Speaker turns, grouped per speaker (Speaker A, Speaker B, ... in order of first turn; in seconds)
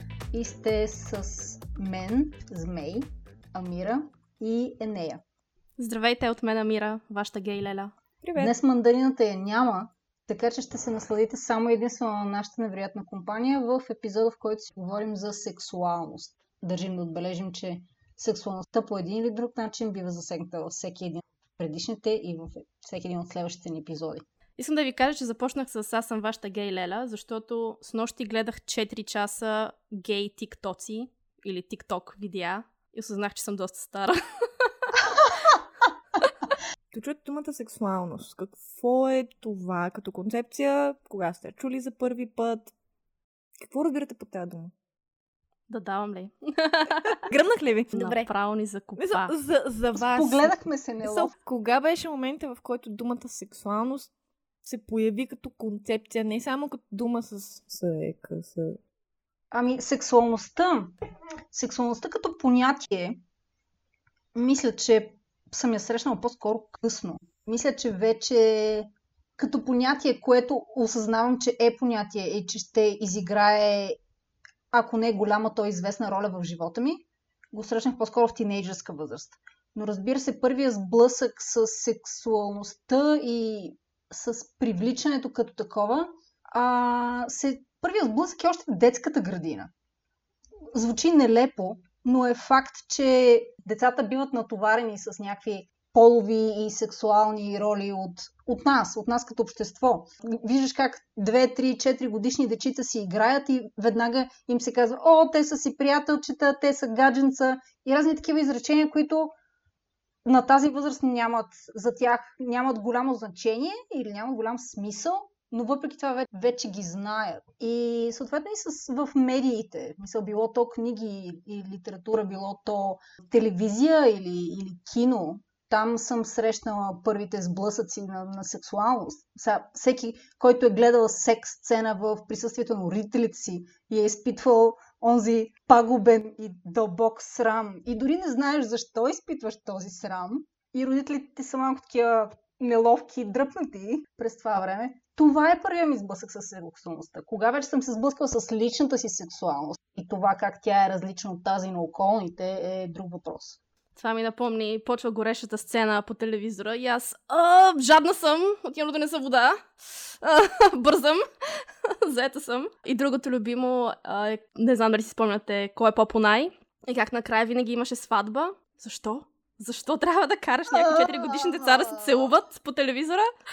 Speaker A: 0.3-5.2, 8.4-24.2, 50.0-51.3, 59.5-60.9, 61.5-63.2, 64.3-74.0, 74.7-89.7, 90.7-109.3, 110.2-153.6, 170.7-172.3
Speaker B: 5.8-7.9, 24.6-35.5, 45.7-47.3, 47.9-49.3, 154.0-173.3
Speaker C: 8.2-8.5, 36.9-42.7, 43.6-44.7, 47.3-48.3, 49.0-54.1, 54.6-58.8